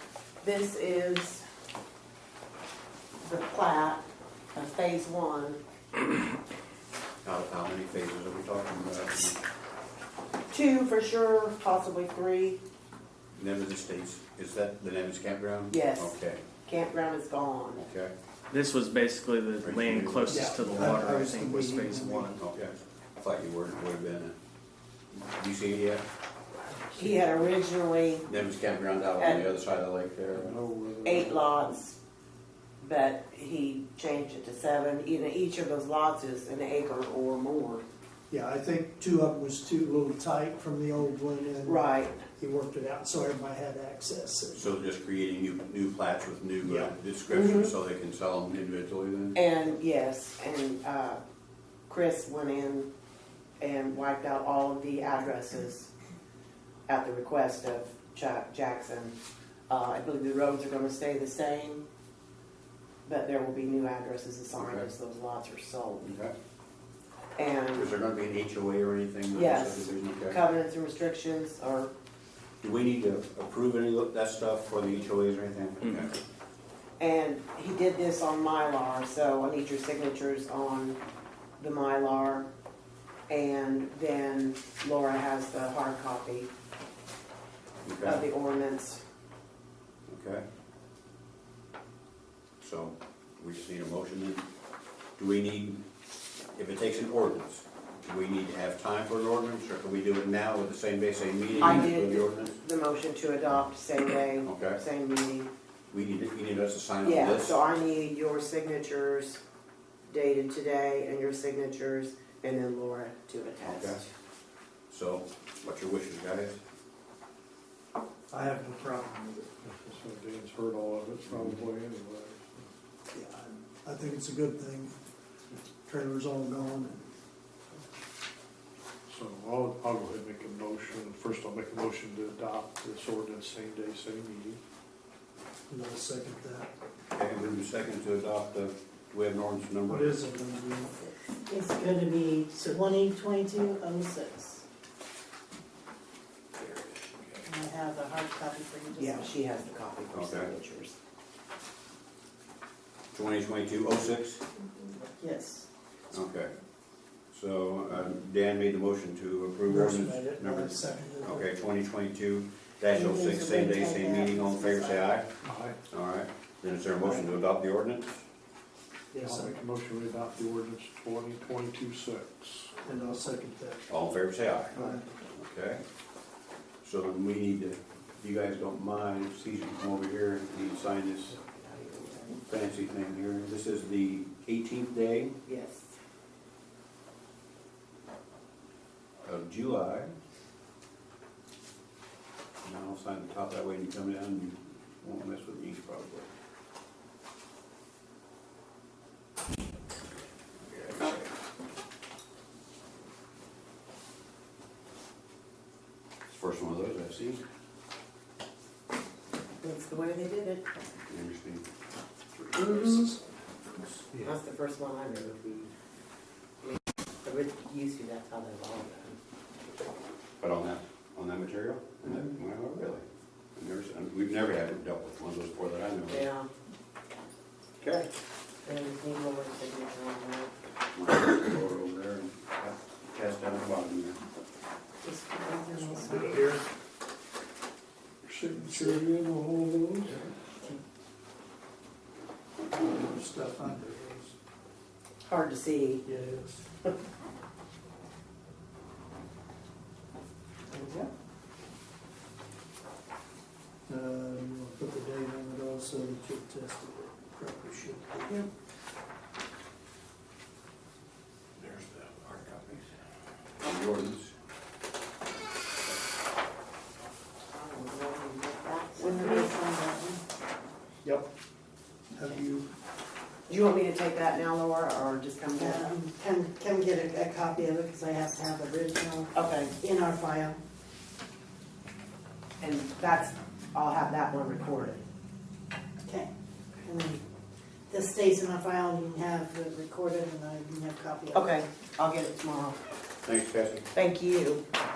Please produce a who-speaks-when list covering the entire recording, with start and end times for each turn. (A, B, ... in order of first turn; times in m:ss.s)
0:00.4-0:01.4 A
0:03.2-0:04.0 A
0:04.5-0:05.6 A
0:07.2-0:09.4 B
0:10.5-0:12.6 A
0:13.3-0:16.4 B
0:15.7-0:17.8 A
0:17.8-0:18.1 B
0:18.5-0:22.4 C
0:19.6-0:21.0 B
0:20.3-0:22.3 D
0:22.4-0:24.3 B
0:25.1-0:26.0 B
0:26.9-0:28.4 A
0:28.3-0:30.6 B
0:29.2-0:29.5 A
0:30.3-0:31.7 E
0:31.0-0:32.0 A
0:32.8-0:37.8 A
0:38.3-0:44.6 D
0:41.6-0:42.2 A
0:44.5-0:49.4 B
0:46.6-0:46.9 D
0:47.3-0:47.7 A
0:49.3-0:51.2 A
0:51.9-0:52.9 A
0:53.6-0:55.9 A
0:56.9-0:59.1 A
0:59.7-1:01.8 A
1:03.0-1:06.2 A
1:04.5-1:04.9 B
1:06.0-1:06.3 B
1:07.4-1:07.9 A
1:07.7-1:10.4 B
1:09.3-1:11.9 A
1:12.6-1:16.1 B
1:17.0-1:21.0 A
1:21.6-1:22.5 A
1:23.3-1:26.5 A
1:27.8-1:28.2 B
1:28.0-1:29.0 A
1:30.1-1:30.4 B
1:32.6-1:34.4 B
1:35.2-1:35.8 B
1:36.5-1:42.6 B
1:41.6-1:45.5 A
1:44.4-1:44.8 B
1:45.9-1:47.6 B
1:47.0-1:49.4 A
1:50.1-1:54.1 A
1:53.6-1:54.0 B
1:54.9-1:56.6 B
1:58.3-1:59.5 D
1:59.6-2:02.7 E
2:01.2-2:01.6 B
2:03.1-2:05.0 D
2:05.8-2:07.1 D
2:09.1-2:14.6 E
2:15.7-2:16.7 D
2:17.1-2:20.1 B
2:19.9-2:21.1 D
2:21.5-2:24.6 F
2:22.6-2:22.8 D
2:27.4-2:29.3 F
2:28.9-2:31.0 A
2:30.1-2:30.5 B
2:33.1-2:34.4 B
2:35.2-2:35.7 F
2:36.1-2:36.5 B
2:37.3-2:45.3 B
2:39.6-2:41.5 D
2:42.9-2:45.0 F
2:45.4-2:45.8 E
2:45.9-2:48.2 B
2:49.1-2:49.6 D
2:49.2-2:52.8 E
2:52.8-2:53.9 D
2:53.9-2:55.8 B
2:54.7-2:55.0 D
2:56.8-3:01.4 B
3:01.3-3:02.4 A
3:02.5-3:05.4 B
3:05.4-3:06.0 A
3:09.2-3:10.1 B
3:12.6-3:16.3 B
3:20.7-3:21.2 B
3:26.3-3:27.4 B
3:29.6-3:30.7 A
3:31.1-3:31.6 B
3:32.4-3:34.3 E
3:32.5-3:33.1 A
3:34.1-3:35.7 A
3:36.6-3:39.2 A
3:40.4-3:43.0 B
3:43.6-3:46.2 B
3:46.1-3:46.5 A
3:47.8-3:48.1 B
3:48.6-3:50.5 A
3:50.9-3:54.2 B
3:55.0-3:56.4 A
3:55.3-3:56.2 F
3:56.0-3:56.6 D
3:58.2-4:00.2 E
4:02.7-4:04.3 D
4:05.2-4:06.1 A
4:06.0-4:06.6 D
4:10.7-4:11.1 D
4:13.9-4:18.4 D
4:21.6-4:22.8 B
4:23.6-4:24.3 B
4:27.5-4:29.5 A
4:29.0-4:30.2 F
4:32.1-4:32.7 D
4:33.5-4:36.0 A
4:35.5-4:40.6 F
4:39.3-4:39.7 A
4:42.6-4:45.0 A
4:46.0-4:46.3 F
4:46.8-4:47.2 F
4:47.9-4:51.5 F
4:51.3-4:52.8 A
4:53.2-4:53.8 B
4:53.9-4:54.6 A